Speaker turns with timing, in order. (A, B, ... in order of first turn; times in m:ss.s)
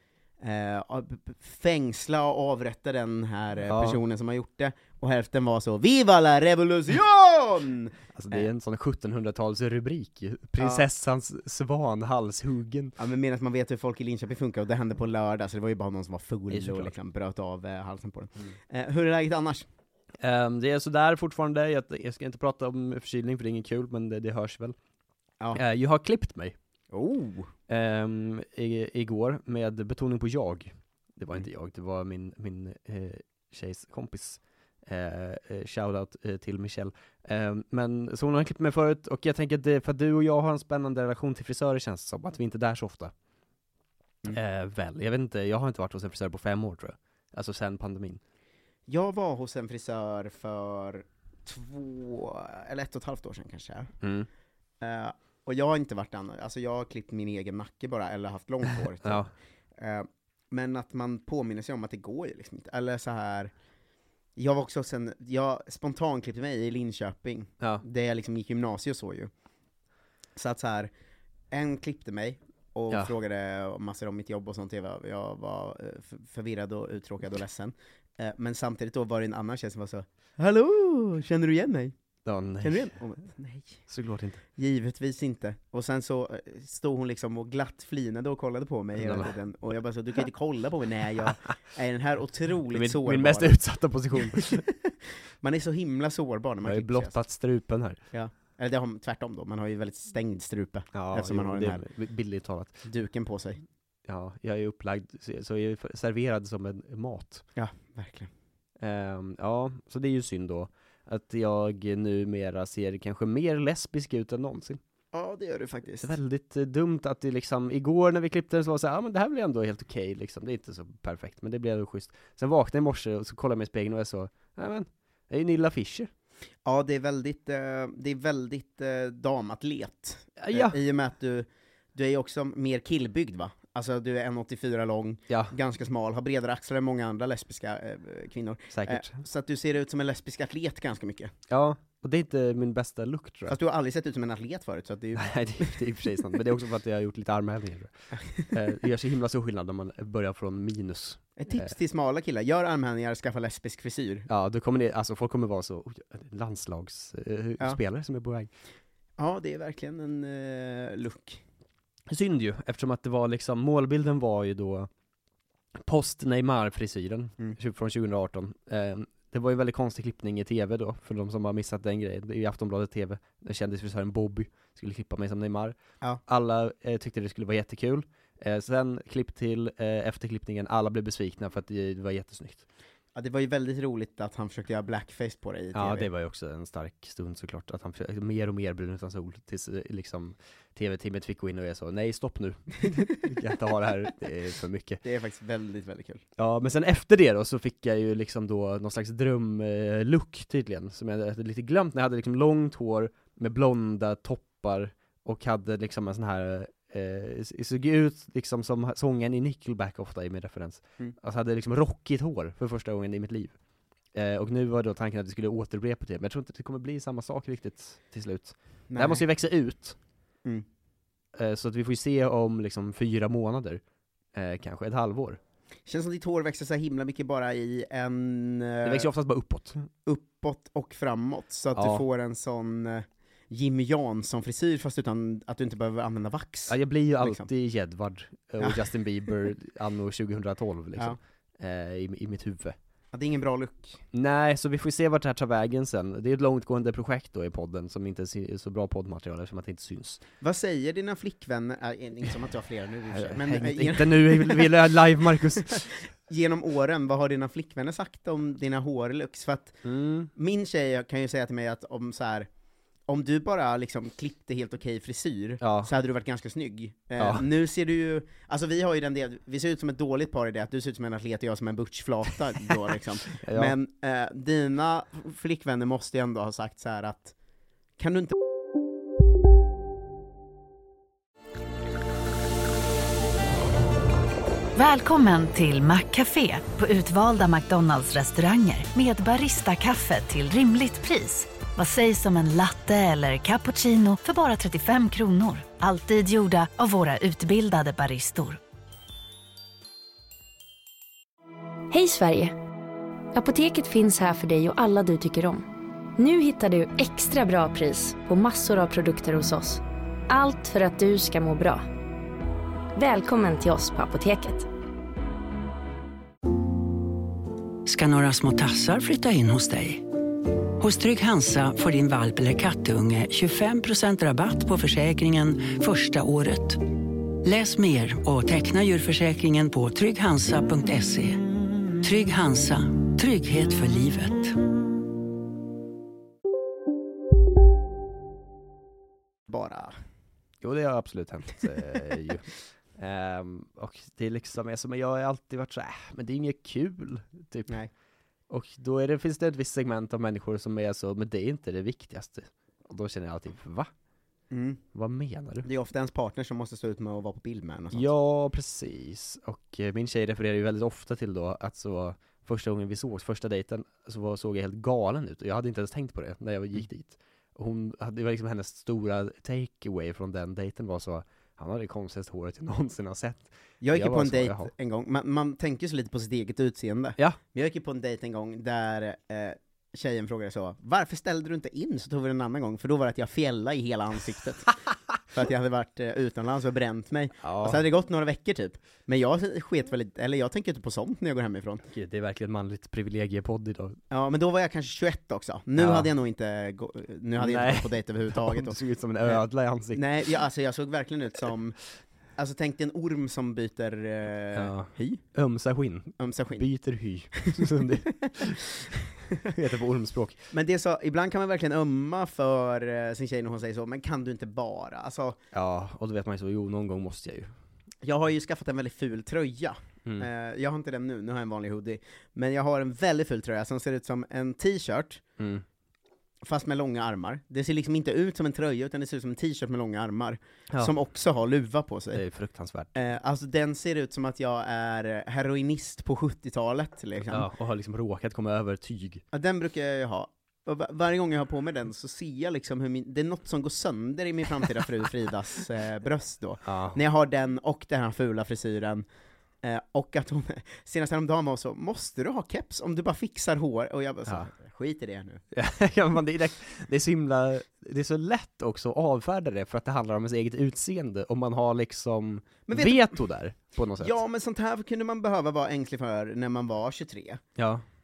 0:00.4-0:08.5 A
0:03.7-0:04.0 B
0:08.1-0:13.0 B
0:10.6-0:10.9 A
0:13.0-0:19.7 A
0:16.5-0:16.9 B
0:20.2-0:24.8 B
0:25.6-0:26.6 B
0:26.9-0:27.5 A
0:27.7-0:43.1 B
0:44.3-0:48.2 B
0:48.9-0:53.9 A
0:54.0-0:54.3 B
0:54.8-1:03.5 A
0:59.0-0:59.3 B
1:04.4-1:09.3 A
1:10.4-1:10.9 A
1:11.5-1:22.0 A
1:22.2-1:23.0 B
1:22.6-1:23.8 A
1:23.9-1:24.4 B
1:24.6-1:33.6 A
1:29.0-1:29.3 B
1:32.7-1:34.6 B
1:34.2-1:37.2 A
1:36.6-1:38.0 B
1:38.1-1:41.8 A
1:40.9-1:42.8 B
1:42.8-1:43.6 A
1:44.1-1:47.4 B
1:47.6-1:48.3 A
1:48.8-1:54.8 B
1:55.1-1:56.2 A
1:56.0-2:06.1 B
2:06.6-2:21.3 A
2:10.4-2:10.8 B
2:15.3-2:15.5 B
2:18.7-2:19.2 B
2:21.5-2:23.6 B
2:23.5-2:25.8 A
2:25.2-2:31.8 B
2:31.4-2:34.3 A
2:34.3-2:38.5 B
2:39.2-2:41.4 A
2:42.1-2:44.9 B
2:45.8-3:02.6 B
3:03.2-3:06.1 A
3:05.7-3:15.0 B
3:15.0-3:16.2 A
3:16.4-3:33.6 B
3:34.1-3:40.0 B
3:38.9-3:39.2 A
3:41.4-3:43.8 B
3:44.3-3:45.4 B
3:45.9-3:49.1 A
3:48.8-3:49.9 B
3:50.0-3:57.5 A
3:51.8-3:52.0 B
3:56.7-4:02.8 B
3:58.6-3:58.9 A
4:03.1-4:04.0 A
4:04.1-4:10.2 B
4:10.4-4:14.9 A
4:13.1-4:15.8 B
4:15.7-4:22.5 A
4:19.8-4:20.3 B
4:23.1-4:37.3 A
4:25.6-4:25.9 B
4:27.2-4:27.5 B
4:33.4-4:33.8 B
4:38.0-4:38.4 A
4:44.8-4:58.6 C
5:01.9-5:02.6 D
5:03.3-5:05.6 D
5:06.2-5:11.8 D
5:13.0-5:14.7 D
5:17.9-5:20.1 E
5:20.8-5:26.8 E
5:27.4-5:31.4 E
5:32.0-5:34.6 E
5:39.5-5:40.0 A
5:40.6-5:47.8 B
5:48.5-5:53.9 B
5:54.5-5:54.8 A
5:54.9-5:55.7 B
5:55.6-5:58.1 A
5:57.9-6:14.7 B
6:13.8-6:24.8 A
6:25.3-6:31.8 A
6:27.4-6:27.8 B
6:31.9-6:34.0 B
6:34.1-6:41.8 A
6:35.8-6:36.1 B
6:37.4-6:40.0 B
6:42.4-6:45.2 A
6:44.5-6:48.6 B
6:46.2-6:46.7 A
6:47.4-6:48.5 A
6:49.4-6:50.4 B
6:50.5-6:55.4 A
6:55.5-6:57.5 B
6:58.0-7:05.2 A
7:05.4-7:05.6 B
7:06.4-7:12.2 A
7:12.1-7:13.0 B
7:13.0-7:17.5 A
7:17.3-7:19.2 B
7:19.3-7:29.0 A
7:26.6-7:27.0 B
7:29.6-7:35.4 A
7:35.5-7:44.2 B
7:42.7-7:43.2 A
7:44.0-7:47.4 A
7:47.6-7:47.8 B